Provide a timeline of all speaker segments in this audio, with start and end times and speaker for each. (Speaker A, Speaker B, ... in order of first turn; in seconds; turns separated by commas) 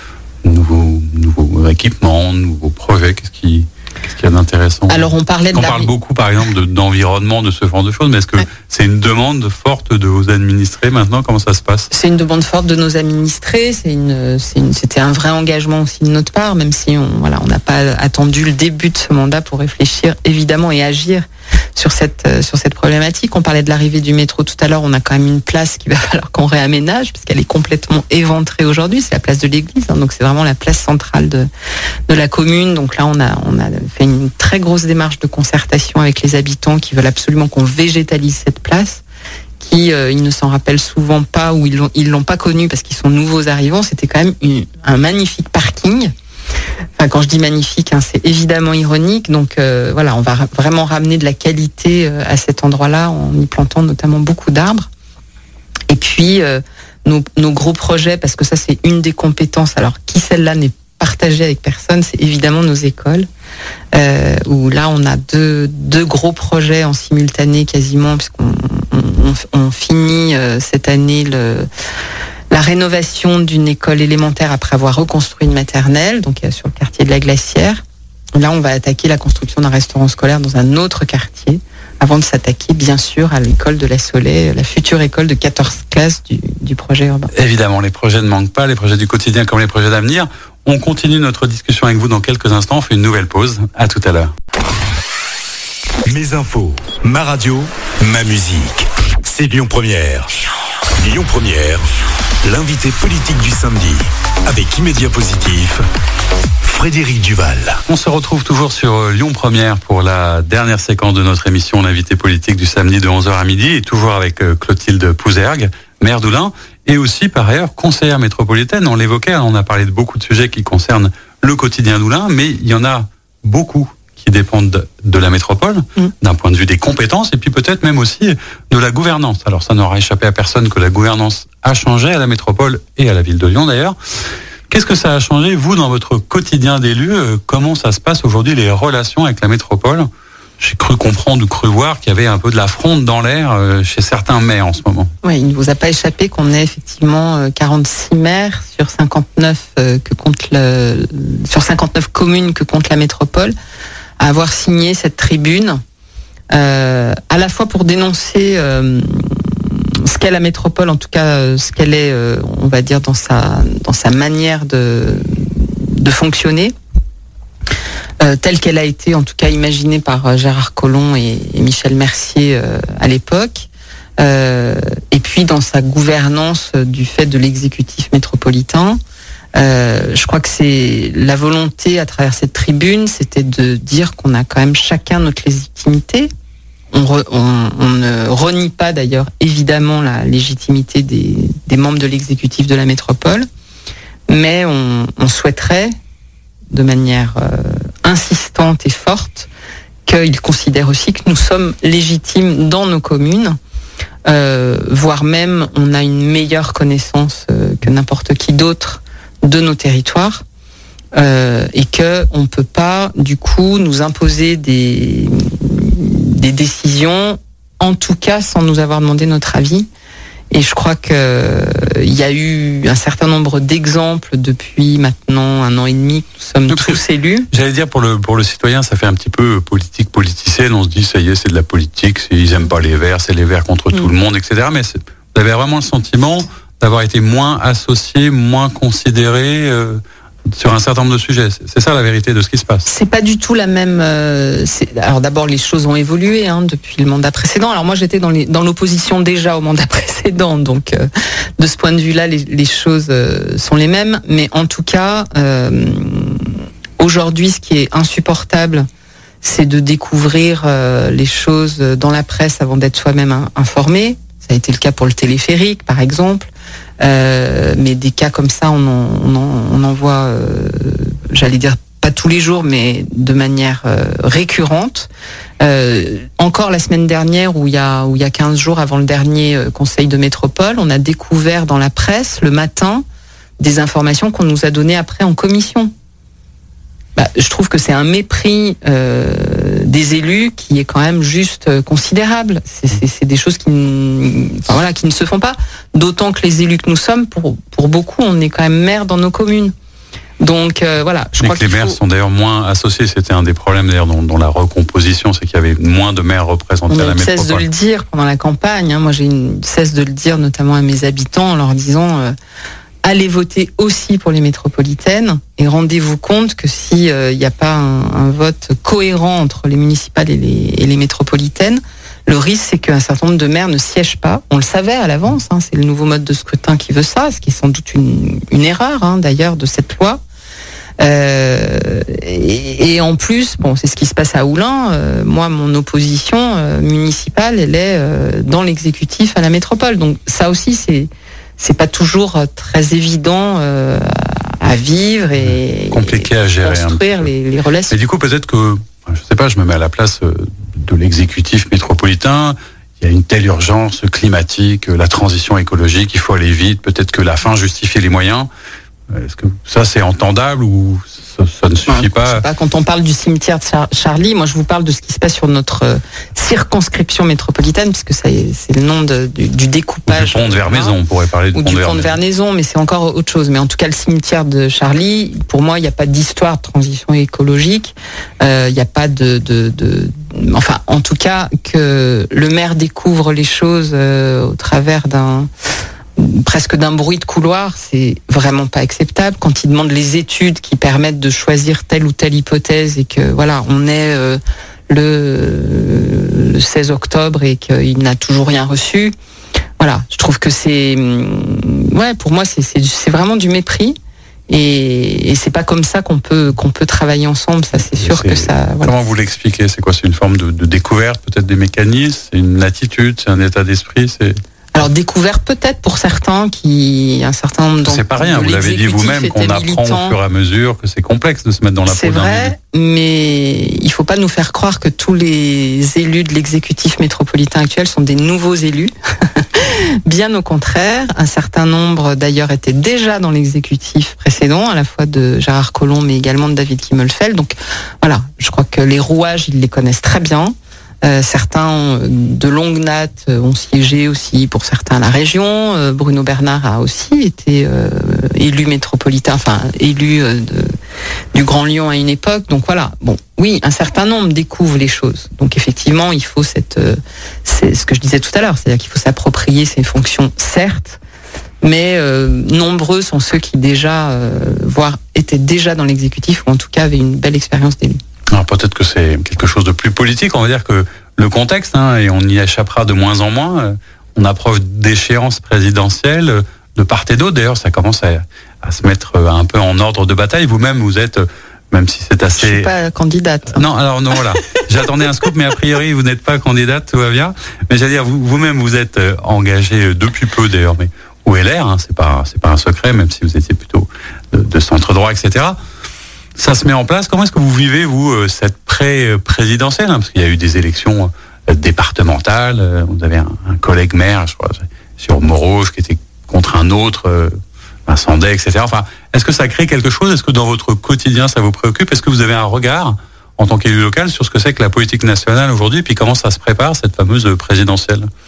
Speaker A: 0.4-11.9, Speaker B: 4.9-5.9, Speaker B: 11.9-31.5, Speaker B: 32.1-39.0, Speaker B: 39.6-46.1, Speaker B: 47.0-54.9, Speaker B: 55.9-63.3, Speaker B: 63.9-71.7, Speaker B: 72.5-77.8, Speaker B: 78.3-87.3, Speaker A: 87.3-94.3, Speaker C: 96.0-100.4, Speaker C: 101.0-101.8, Speaker C: 102.4-105.8, Speaker C: 106.6-107.8, Speaker A: 107.9-140.1, Speaker A: 140.6-145.1, Speaker B: 145.2-153.5, Speaker B: 154.2-155.8, Speaker B: 156.5-166.7, Speaker B: 168.2-173.7, Speaker B: 174.2-179.0, Speaker B: 179.6-186.3, Speaker B: 186.9-193.5, Speaker B: 194.3-195.9, Speaker B: 196.7-199.5, Speaker B: 200.1-203.6, Speaker B: 204.2-210.4, Speaker B: 211.1-219.9, Speaker B: 220.5-227.5, Speaker A: 226.7-242.8, Speaker B: 242.8-251.1, Speaker B: 251.6-258.9, Speaker B: 259.4-275.1, Speaker B: 275.6-283.0, Speaker B: 283.6-285.9, Speaker B: 287.1-299.7, Speaker B: 300.4-302.0, Speaker A: 301.4-307.6, Speaker B: 306.9-312.3, Speaker B: 313.0-330.2, Speaker B: 331.0-348.0, Speaker A: 345.4-347.3, Speaker A: 347.9-358.5, Speaker A: 359.1-362.4, Speaker B: 361.9-370.9, Speaker A: 370.1-372.2, Speaker B: 371.5-385.5, Speaker B: 386.1-399.1, Speaker B: 399.8-404.0, Speaker B: 404.5-408.9, Speaker A: 407.9-414.4, Speaker B: 414.7-420.2, Speaker A: 417.8-422.5, Speaker B: 421.9-450.7, Speaker B: 451.3-461.0, Speaker B: 461.6-468.0, Speaker A: 468.3-482.7, Speaker B: 482.4-483.6, Speaker A: 483.5-495.6, Speaker A: 496.4-507.4, Speaker A: 507.9-518.1